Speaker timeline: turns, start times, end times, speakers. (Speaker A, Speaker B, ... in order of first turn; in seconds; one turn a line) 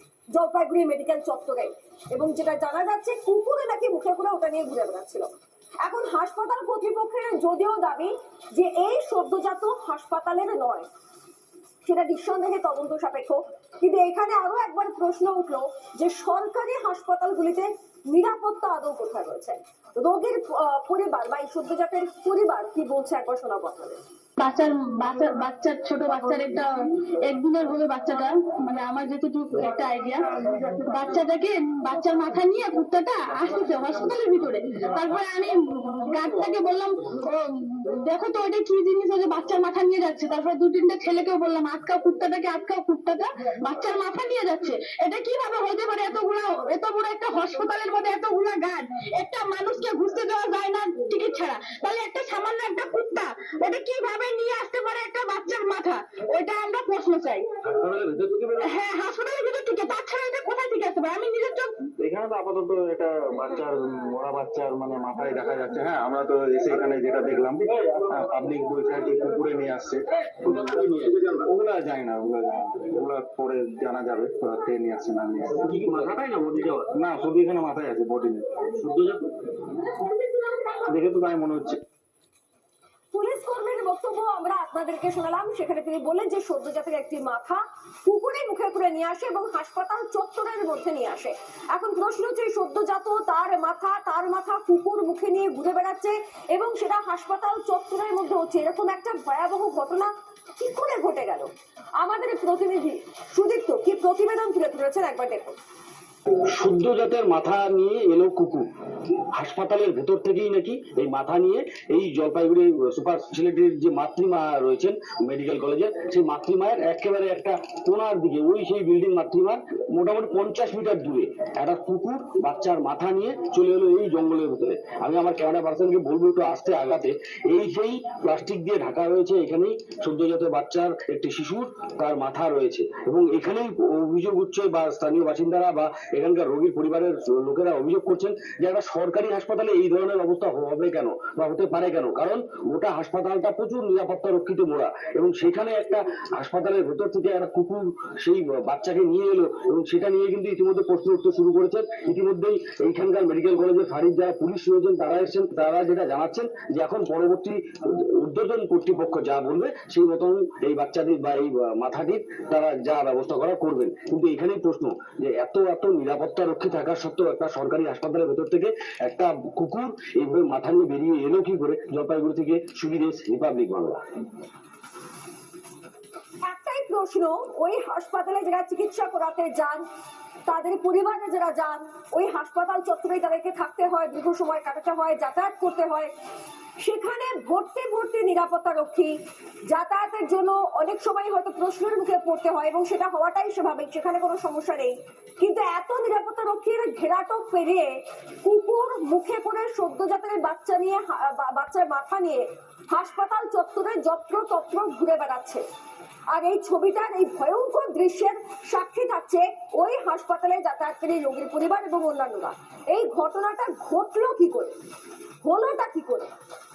Speaker A: 0.3-5.3
Speaker A: 5.8-10.9
Speaker A: 11.8-24.0
Speaker B: 24.4-57.6
Speaker C: 57.8-58.5
Speaker B: 58.6-61.7
Speaker D: 62.0-70.0
Speaker C: 70.4-71.3
Speaker D: 71.3-75.7
Speaker C: 75.6-76.9
Speaker D: 76.9-78.7
Speaker C: 78.8-79.5
Speaker D: 80.7-81.8
Speaker A: 83.1-105.5
Speaker C: 106.3-174.0
Speaker A: 176.5-179.8
Speaker A: 180.5-186.1
Speaker A: 186.8-189.2
Speaker A: 189.7-205.6
Speaker A: 206.3-214.8
Speaker A: 215.4-216.3